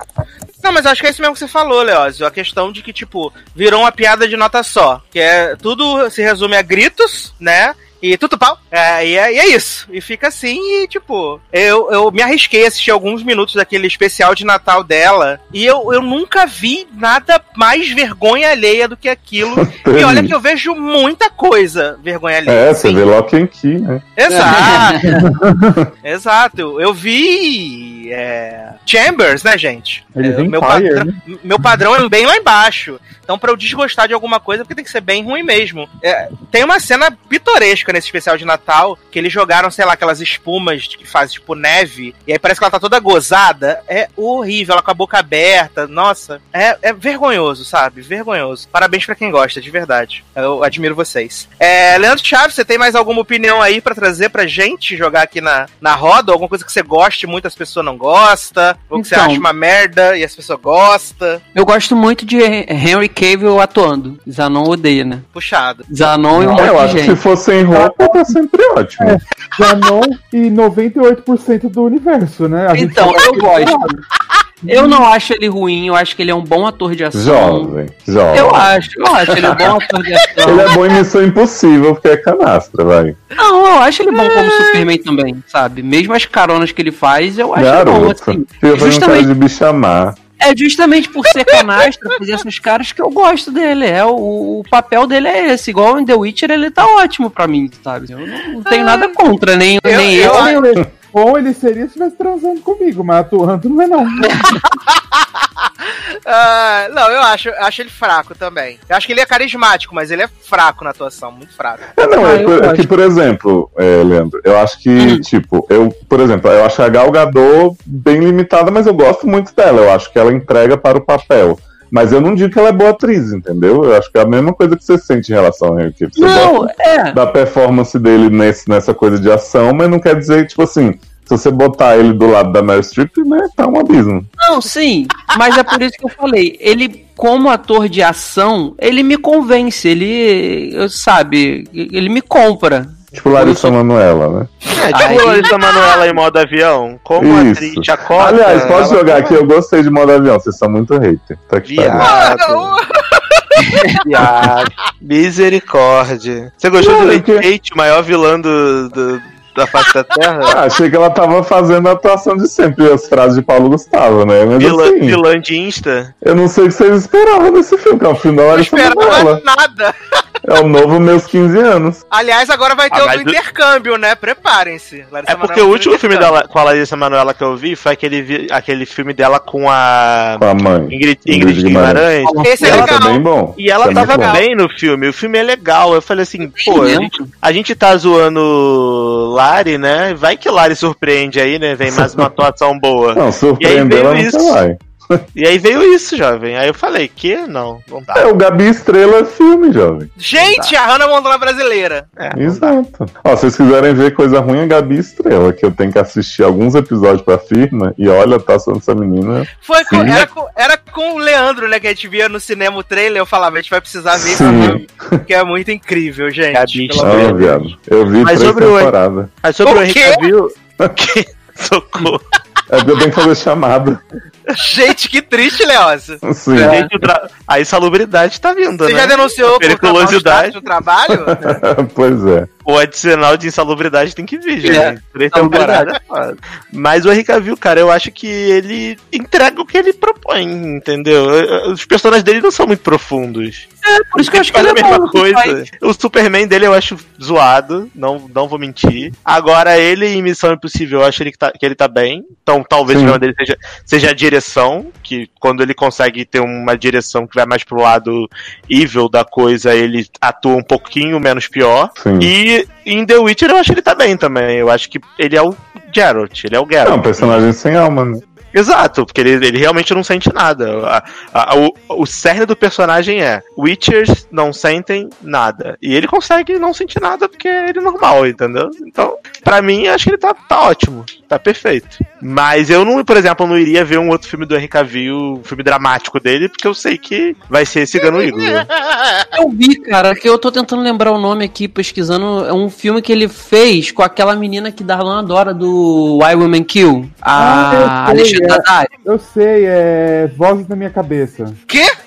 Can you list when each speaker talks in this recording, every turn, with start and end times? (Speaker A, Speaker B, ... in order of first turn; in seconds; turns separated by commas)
Speaker A: 0.6-23.0, Speaker B: 19.4-20.4, Speaker B: 22.5-24.0, Speaker A: 24.2-25.1, Speaker C: 24.3-25.2, Speaker A: 26.0-61.4, Speaker D: 30.1-31.2, Speaker C: 58.9-59.5, Speaker C: 61.5-65.3, Speaker A: 65.3-65.9, Speaker C: 65.9-67.2, Speaker B: 66.3-69.2, Speaker D: 67.7-68.3, Speaker D: 69.0-73.9, Speaker C: 72.7-74.0, Speaker C: 74.7-77.8, Speaker B: 77.1-78.8, Speaker C: 78.3-80.7, Speaker B: 80.4-83.2, Speaker C: 83.4-89.3, Speaker A: 84.2-84.8, Speaker B: 87.6-90.2, Speaker C: 90.4-100.8, Speaker A: 98.7-99.1, Speaker A: 99.9-100.6, Speaker D: 100.2-104.3, Speaker A: 104.7-105.2, Speaker A: 106.3-111.9, Speaker B: 112.0-134.3, Speaker C: 112.2-112.9, Speaker C: 115.0-115.2, Speaker C: 126.2-127.2, Speaker C: 134.4-143.8, Speaker B: 143.1-144.5, Speaker E: 144.7-149.4, Speaker C: 144.9-145.5, Speaker A: 145.1-146.2, Speaker B: 147.2-152.1, Speaker C: 147.9-148.8, Speaker E: 151.7-152.8, Speaker A: 152.0-153.8, Speaker C: 153.6-154.0, Speaker E: 154.0-160.6, Speaker B: 156.8-157.5, Speaker B: 160.4-165.2, Speaker E: 164.6-166.1, Speaker B: 166.2-169.4, Speaker A: 168.5-170.2, Speaker B: 170.4-172.0, Speaker A: 172.1-176.4, Speaker E: 172.9-173.4, Speaker E: 175.3-183.0, Speaker B: 180.4-182.1, Speaker C: 182.2-182.5, Speaker A: 182.4-183.2, Speaker B: 182.6-184.4, Speaker E: 183.6-194.6, Speaker A: 183.8-184.5, Speaker C: 186.6-187.3, Speaker B: 191.9-192.3, Speaker B: 193.2-195.2, Speaker E: 195.4-198.3, Speaker B: 198.1-200.1, Speaker A: 200.2-202.1, Speaker E: 200.4-200.7, Speaker E: 202.2-202.8, Speaker B: 202.3-210.2, Speaker A: 209.6-217.7, Speaker B: 214.1-215.2, Speaker E: 216.5-217.7, Speaker B: 217.0-219.3, Speaker E: 218.2-218.9, Speaker E: 219.4-222.2, Speaker A: 219.6-220.2, Speaker B: 222.7-224.0, Speaker A: 224.6-226.2, Speaker B: 226.2-226.8, Speaker C: 226.5-226.9, Speaker E: 226.7-230.6, Speaker A: 228.9-231.4, Speaker B: 231.1-232.5, Speaker E: 232.7-267.4, Speaker C: 234.6-235.9, Speaker C: 243.8-245.6, Speaker B: 252.9-253.2, Speaker B: 262.0-262.3, Speaker B: 266.8-268.2, Speaker E: 268.5-288.7, Speaker A: 288.0-289.3, Speaker C: 289.3-298.9, Speaker D: 297.4-301.6, Speaker A: 301.7-301.9